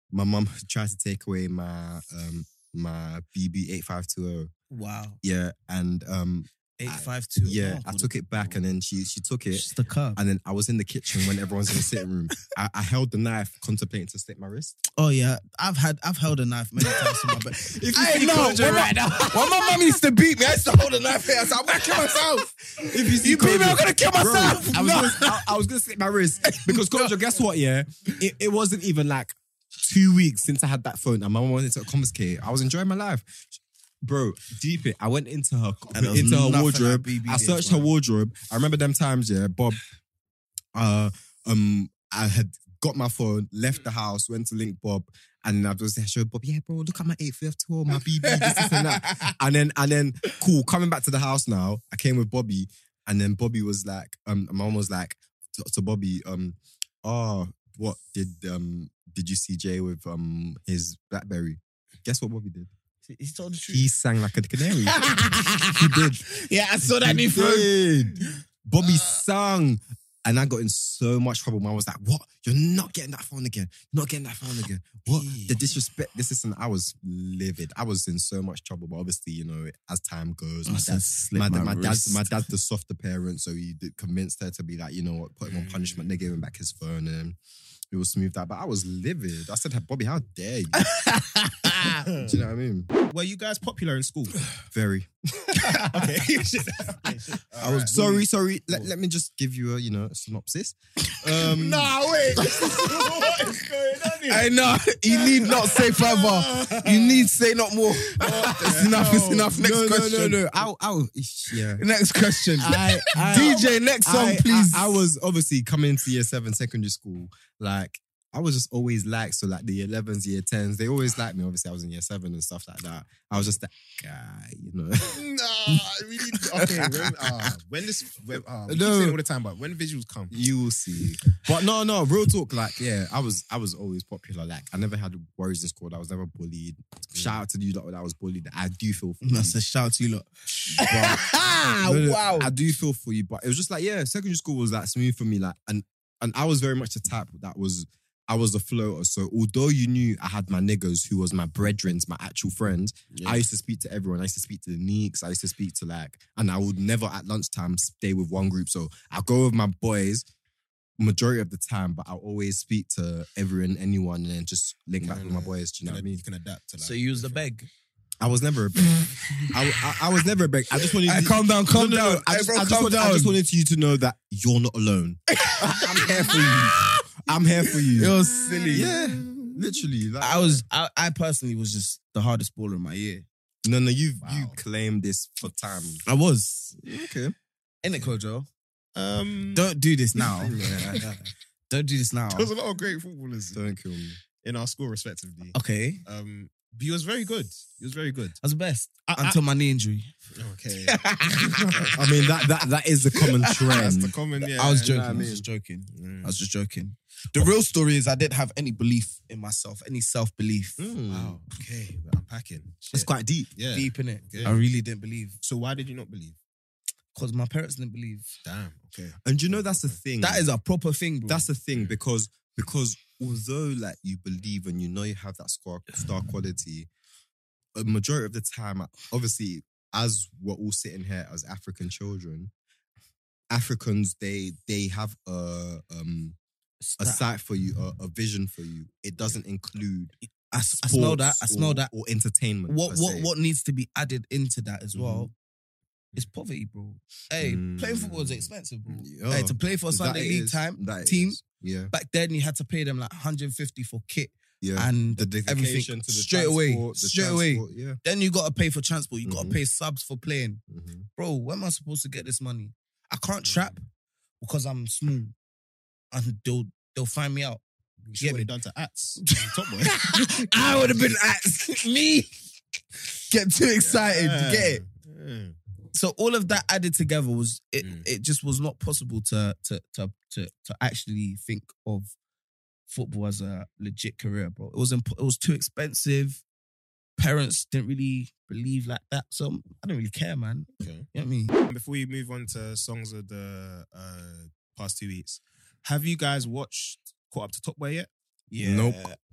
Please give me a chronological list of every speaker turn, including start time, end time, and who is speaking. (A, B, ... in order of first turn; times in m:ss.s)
0:00.1-0:04.5 A
0:04.7-0:05.2 B
0:05.2-0:14.8 A
0:06.8-0:08.6 B
0:09.5-0:10.2 B
0:15.0-0:25.5 B
0:16.8-0:19.7 A
0:21.6-0:22.2 A
0:22.8-0:39.8 A
0:26.4-0:27.2 B
0:35.9-0:37.9 B
0:40.7-1:02.7 A
0:47.9-0:49.3 B
1:03.0-1:03.9 B
1:03.7-1:05.0 A
1:04.8-1:07.7 B
1:05.7-1:06.2 A
1:07.0-1:27.4 A
1:15.1-1:15.6 C
1:20.6-1:22.3 B
1:25.4-1:26.2 C
1:27.9-1:30.8 A
1:30.8-1:32.0 B
1:32.0-1:32.3 C
1:32.2-1:32.9 A
1:33.1-1:34.3 C
1:34.7-1:35.7 A
1:35.5-1:36.1 B
1:35.8-1:38.1 C
1:37.6-1:38.2 B
1:37.9-1:41.9 A
1:41.4-1:47.3 C
1:42.4-1:43.5 B
1:44.2-1:50.6 B
1:47.9-1:49.6 C
1:48.4-1:51.8 A
1:51.5-1:54.9 B
1:52.6-2:05.2 A
1:53.3-1:53.7 C
2:05.0-2:10.3 C
2:06.5-2:07.5 B
2:08.7-2:09.2 A
2:10.3-2:19.6 A
2:19.2-2:22.5 B
2:20.7-2:21.3 A
2:21.8-2:40.3 A
2:33.1-2:33.4 B
2:41.0-2:46.2 A
2:45.0-2:47.4 C
2:46.8-2:47.7 B
2:48.2-2:58.2 A
2:50.8-2:53.4 B
2:55.3-2:59.5 B
2:58.7-3:00.6 A
3:00.2-3:03.2 B
3:03.6-3:06.0 A
3:04.2-3:04.6 C
3:06.0-3:06.8 B
3:06.8-3:07.3 A
3:07.8-3:08.5 B
3:08.9-3:09.7 C
3:09.5-3:11.1 B
3:10.2-3:11.0 A
3:11.0-3:11.3 C
3:11.7-3:12.5 B
3:12.3-3:13.6 C
3:13.5-3:14.2 A
3:14.3-3:18.4 C
3:15.5-3:16.0 B
3:18.4-3:20.1 B
3:19.1-3:19.4 C
3:20.3-3:22.0 C
3:20.8-3:22.0 B
3:21.9-3:24.2 A
3:23.2-3:30.8 B
3:23.7-3:25.2 C
3:24.8-3:25.4 A
3:25.9-3:26.4 C
3:30.8-3:31.4 A
3:31.1-3:34.6 C
3:32.9-3:33.5 A
3:33.7-3:35.4 B
3:35.4-3:36.4 C
3:37.1-3:38.3 B
3:38.4-3:40.0 C
3:39.2-3:40.5 A
3:40.2-3:41.5 B
3:41.3-3:46.9 A
3:47.7-3:52.5 A
3:53.5-3:56.4 A
3:56.8-3:57.2 B
3:57.0-4:00.1 A
4:00.5-4:01.9 B
4:00.8-4:03.3 A
4:02.7-4:05.3 B
4:04.9-4:05.3 A
4:06.1-4:11.4 B
4:07.4-4:11.9 A
4:11.9-4:20.6 B
4:14.6-4:18.0 A
4:19.2-4:19.6 A
4:20.7-4:21.1 A
4:21.2-4:23.8 B
4:24.4-4:25.3 B
4:26.1-4:27.6 B
4:28.0-4:30.6 C
4:28.2-4:28.5 B
4:29.2-4:32.4 B
4:33.0-4:34.8 B
4:33.8-4:35.6 C
4:35.9-4:42.1 B
4:37.8-4:38.0 C
4:42.9-4:46.4 B
4:47.2-4:51.5 B
4:50.8-4:51.1 C
4:51.7-4:58.1 C
4:58.5-4:59.2 B
4:58.6-4:59.1 A